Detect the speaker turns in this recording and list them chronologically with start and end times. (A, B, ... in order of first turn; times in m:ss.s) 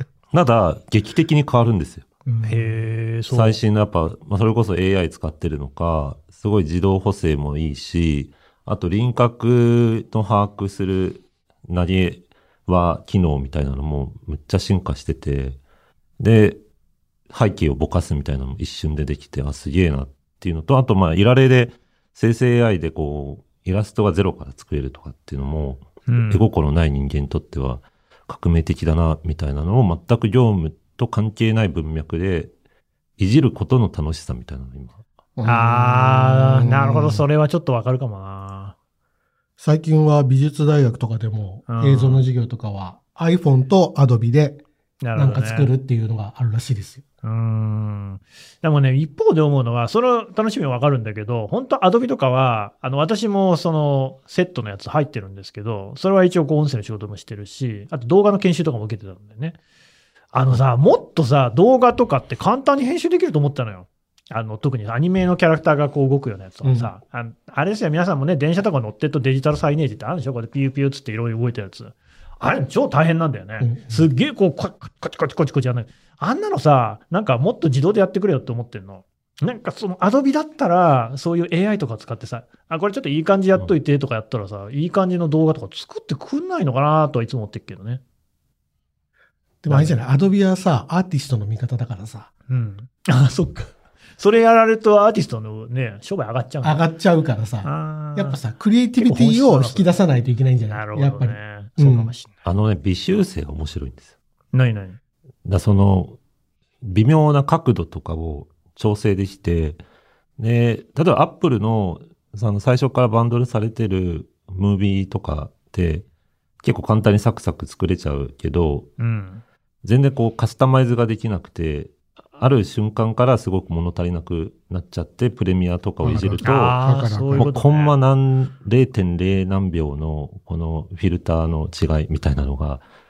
0:00.3-0:02.1 A
0:02.3-0:02.8 B
0:02.4-0:03.6 C
0:03.3-0:15.6 A
0:16.2-0:16.6 A
0:17.3-0:32.5 A
0:26.1-0:26.4 C
0:33.2-0:35.0 A
0:35.4-0:37.2 B
0:35.4-0:38.8 C
0:39.6-0:44.6 B
0:41.7-0:42.3 C
0:45.0-0:45.7 C
0:45.1-0:47.0 B
0:47.2-0:59.6 C
1:00.3-1:28.0 C
1:06.6-1:06.9 B
1:13.6-1:14.1 B
1:29.6-1:32.3 B
1:29.7-1:30.0 C
1:32.5-1:36.8 C
1:36.6-1:42.1 B
1:37.6-1:38.4 C
1:39.0-1:40.0 C
1:40.7-1:42.3 C
1:42.4-1:44.1 A
1:44.5-1:45.0 C
1:45.4-1:46.2 A
1:46.8-1:49.8 A
1:50.4-1:56.0 A
1:56.6-1:58.9 A
1:59.0-1:59.4 C
1:59.8-2:06.8 A
2:06.0-2:07.4 B
2:06.4-2:07.9 C
2:07.3-2:12.8 A